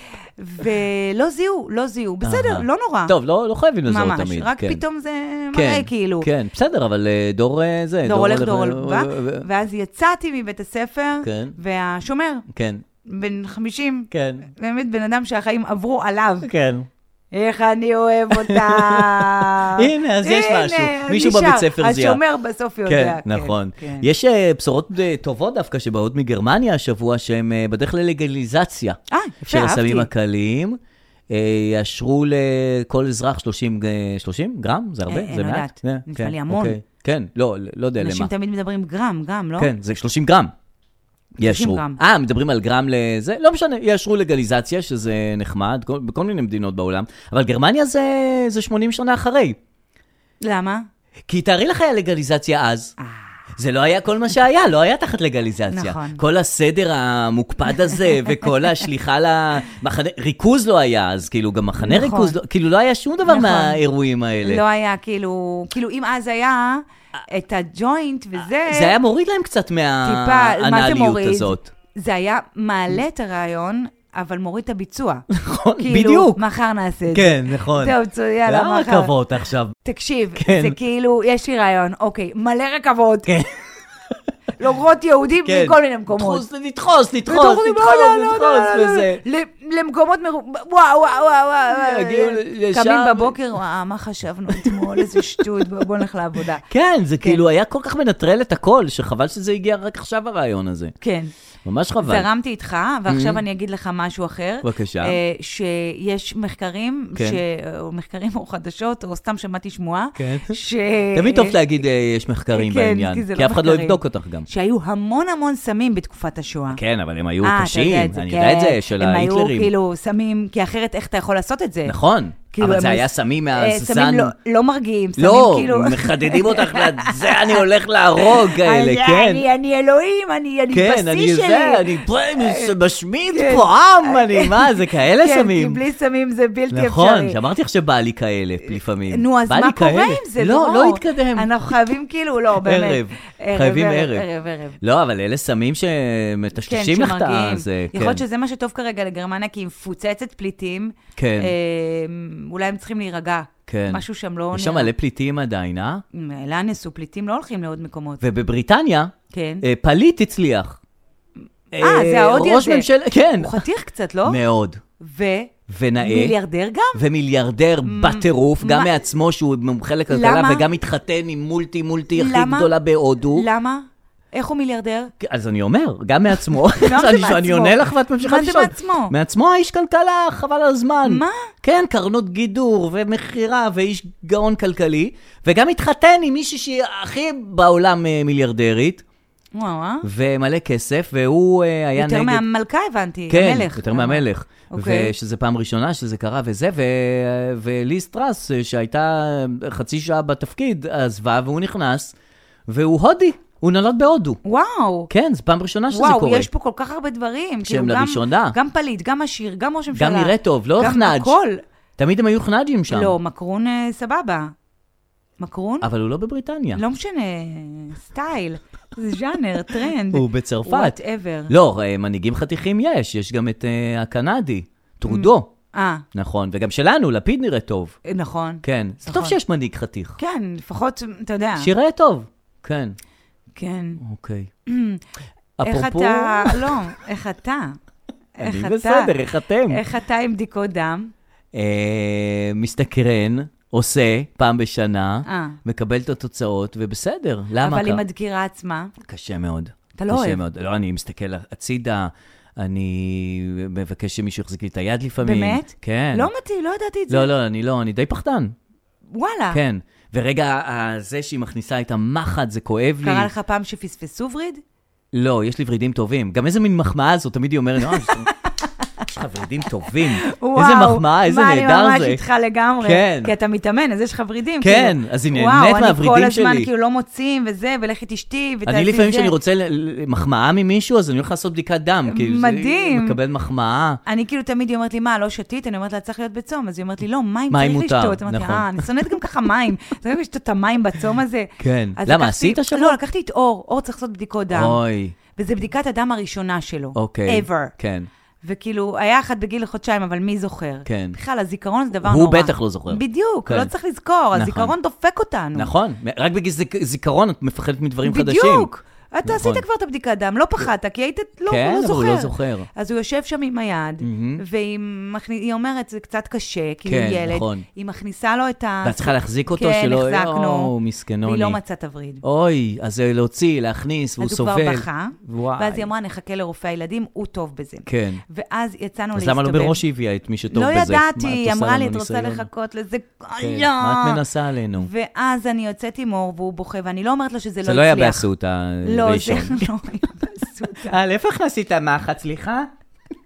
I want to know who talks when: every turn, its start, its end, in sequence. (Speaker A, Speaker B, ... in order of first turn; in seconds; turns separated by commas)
Speaker A: 0.4-3.1, Speaker B: 2.2-4.8, Speaker A: 3.9-6.3, Speaker B: 5.5-9.4, Speaker A: 8.1-12.5, Speaker B: 11.2-11.6, Speaker B: 12.5-12.8, Speaker A: 13.1-16.5, Speaker B: 14.1-14.5, Speaker B: 16.4-16.9, Speaker A: 17.3-24.1, Speaker B: 18.4-22.2, Speaker B: 22.9-30.8, Speaker A: 29.1-30.1, Speaker B: 31.3-38.3, Speaker A: 35.1-36.8, Speaker A: 38.0-39.7, Speaker B: 39.6-40.5, Speaker B: 41.4-49.6, Speaker A: 41.4-42.0, Speaker A: 50.4-50.9, Speaker B: 51.3-52.9, Speaker A: 53.0-53.3, Speaker B: 53.6-64.6, Speaker A: 55.7-56.2, Speaker A: 57.8-58.5, Speaker A: 61.8-62.4, Speaker A: 63.2-63.8, Speaker A: 64.4-69.0, Speaker B: 68.7-71.7, Speaker A: 70.0-75.3, Speaker B: 75.3-76.4, Speaker A: 75.8-79.1, Speaker B: 77.1-79.8, Speaker A: 79.8-83.3, Speaker B: 80.4-80.8, Speaker B: 83.3-83.5, Speaker A: 84.6-86.4, Speaker B: 85.5-89.2, Speaker A: 87.3-96.6, Speaker B: 91.7-93.4, Speaker B: 94.6-95.4, Speaker B: 96.7-100.9, Speaker A: 101.0-101.3, Speaker B: 101.7-102.3, Speaker A: 102.0-111.6, Speaker B: 103.1-103.4, Speaker B: 104.6-105.2, Speaker B: 107.2-107.4, Speaker B: 110.2-110.6, Speaker B: 111.1-114.5, Speaker A: 112.5-116.8, Speaker B: 116.7-119.7, Speaker A: 117.4-122.0, Speaker B: 121.9-124.3, Speaker A: 122.5-127.7, Speaker B: 125.2-129.4, Speaker A: 128.2-132.8, Speaker B: 130.7-135.8, Speaker A: 133.3-137.4, Speaker B: 136.7-141.5, Speaker A: 138.7-144.8, Speaker B: 142.6-144.3, Speaker B: 144.8-148.2, Speaker A: 146.7-154.9, Speaker B: 151.2-151.5, Speaker B: 153.7-156.0, Speaker A: 156.1-158.2, Speaker B: 158.2-160.8, Speaker A: 159.3-159.6, Speaker B: 161.7-163.6, Speaker A: 161.8-164.4, Speaker B: 164.2-164.8, Speaker A: 165.0-167.0, Speaker B: 165.7-166.4, Speaker B: 166.9-173.5, Speaker A: 167.8-168.9, Speaker A: 170.1-170.7, Speaker A: 172.1-172.7, Speaker A: 173.3-175.1, Speaker B: 175.2-189.0, Speaker A: 176.8-179.1, Speaker A: 181.0-181.5, Speaker A: 189.5-190.1, Speaker B: 190.0-192.4, Speaker A: 192.0-195.1, Speaker B: 193.3-202.1, Speaker B: 202.7-204.4, Speaker A: 204.4-205.1, Speaker B: 205.1-206.5, Speaker A: 205.9-211.6, Speaker B: 207.7-208.6, Speaker B: 209.9-211.4, Speaker B: 212.0-213.2, Speaker A: 212.9-214.5, Speaker A: 215.4-215.9, Speaker B: 215.8-216.8, Speaker A: 216.8-221.5, Speaker B: 220.1-221.0, Speaker B: 221.5-225.5, Speaker A: 225.1-226.1, Speaker B: 226.1-228.0, Speaker A: 228.1-229.4, Speaker B: 228.6-230.2, Speaker A: 230.2-231.7, Speaker B: 231.6-233.0, Speaker A: 233.6-234.0, Speaker B: 234.0-234.5, Speaker A: 234.7-235.0, Speaker B: 235.6-236.8, Speaker A: 235.6-237.8, Speaker A: 238.4-239.1, Speaker B: 238.4-239.8, Speaker A: 239.7-241.1, Speaker B: 241.5-248.0, Speaker A: 245.3-245.6, Speaker A: 247.6-248.9, Speaker B: 249.0-256.3, Speaker A: 250.0-250.4, Speaker A: 255.2-257.3, Speaker B: 257.1-258.6, Speaker A: 259.1-259.6, Speaker B: 259.5-263.3, Speaker A: 263.0-264.6, Speaker B: 265.1-268.3, Speaker A: 267.9-268.8, Speaker B: 269.0-272.2, Speaker A: 270.1-279.4, Speaker B: 272.8-273.3, Speaker B: 274.6-276.7, Speaker B: 278.7-284.0, Speaker A: 282.1-283.2, Speaker A: 284.1-294.8, Speaker B: 287.5-288.9, Speaker B: 291.6-293.0, Speaker B: 294.5-295.2, Speaker A: 295.4-297.7, Speaker B: 296.9-298.1, Speaker A: 298.4-305.7, Speaker B: 300.9-301.2, Speaker B: 302.0-303.7, Speaker B: 304.3-304.7, Speaker B: 305.6-308.7, Speaker A: 308.0-320.7, Speaker B: 309.2-309.6, Speaker B: 311.5-312.7, Speaker B: 314.0-314.4, Speaker B: 316.9-317.7, Speaker B: 318.8-321.6, Speaker A: 321.2-322.2, Speaker B: 322.2-325.9, Speaker A: 324.2-329.8, Speaker B: 327.9-328.2, Speaker B: 329.1-332.5, Speaker A: 330.5-334.2, Speaker B: 333.4-334.9, Speaker A: 334.8-338.3, Speaker B: 337.6-339.7, Speaker A: 338.8-341.0, Speaker B: 340.9-342.7